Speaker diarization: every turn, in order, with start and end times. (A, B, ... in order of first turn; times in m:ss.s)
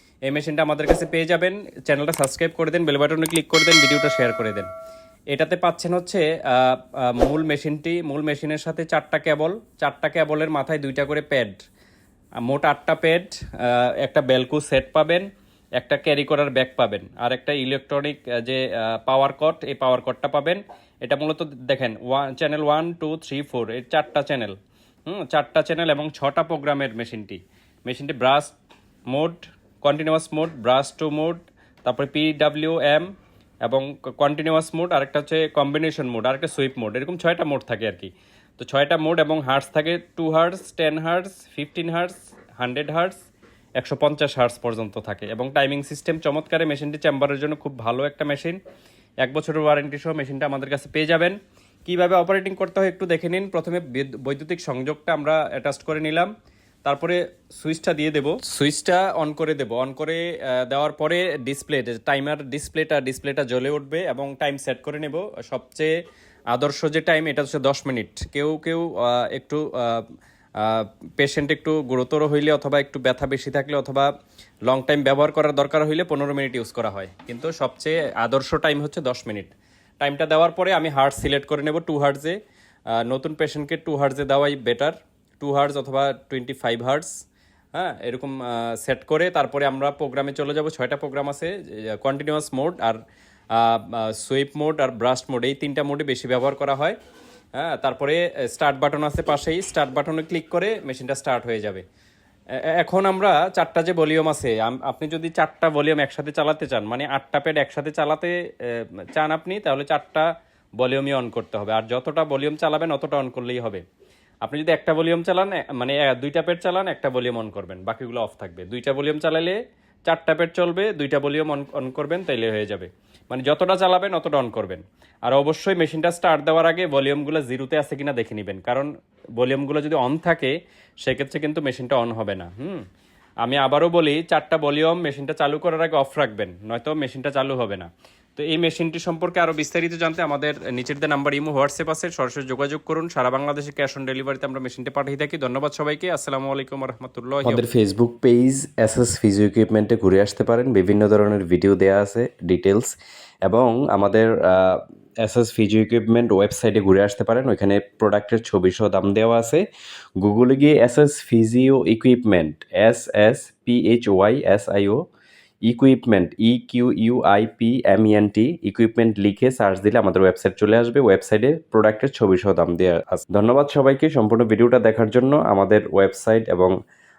0:00.3-0:04.7 A
0:05.3-0:11.6 A
0:12.5-0:15.3 A
0:15.8-0:28.6 A
0:29.1-0:33.1 A
0:33.7-0:43.2 A
0:43.8-0:48.6 A
0:49.2-0:56.3 A
0:56.8-1:05.9 A
1:06.5-1:10.0 A
1:10.6-1:14.1 A
1:14.7-1:22.4 A
1:23.0-1:27.2 A
1:27.8-1:33.0 A
1:33.5-1:37.0 A
1:37.6-1:41.8 A
1:42.8-1:50.2 A
1:50.8-1:53.8 A
1:54.4-2:12.8 A
2:13.4-2:28.6 A
2:27.8-2:32.9 B
2:33.5-2:39.2 B
2:37.9-2:38.2 A
2:38.8-2:39.6 A
2:40.2-2:45.0 B
2:42.4-2:42.8 A
2:45.7-2:53.2 B
2:50.9-2:52.0 A
2:52.5-2:55.6 A
2:54.2-2:56.7 B